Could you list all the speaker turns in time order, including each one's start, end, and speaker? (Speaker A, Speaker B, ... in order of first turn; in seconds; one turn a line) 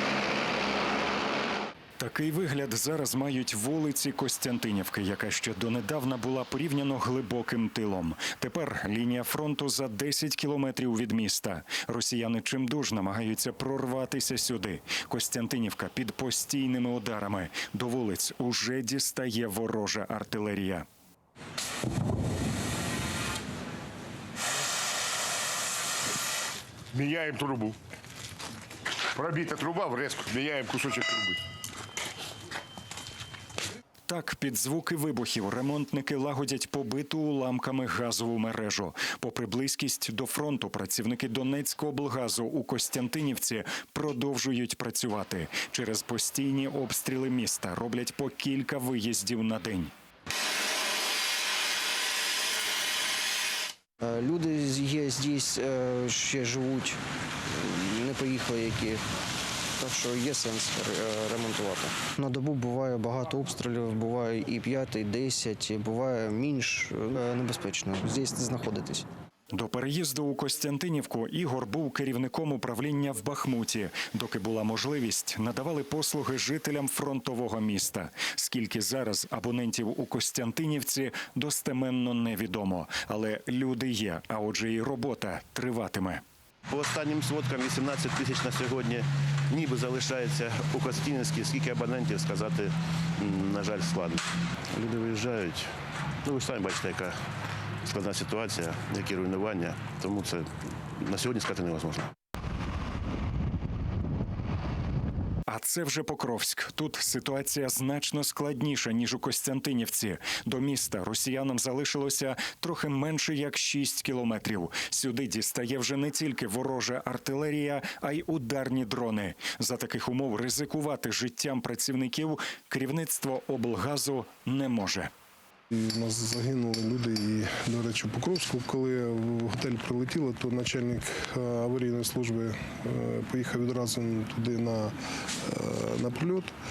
Speaker A: 2.0-20.9
Speaker B: 26.9-27.8
Speaker B: 29.1-31.4
Speaker A: 34.1-49.9
Speaker C: 54.0-59.0
Speaker C: 59.8-69.1
Speaker A: 69.5-86.2
Speaker D: 86.7-95.7
Speaker D: 96.2-97.2
Speaker D: 97.8-102.1
Speaker A: 105.5-125.1
Speaker E: 125.7-136.5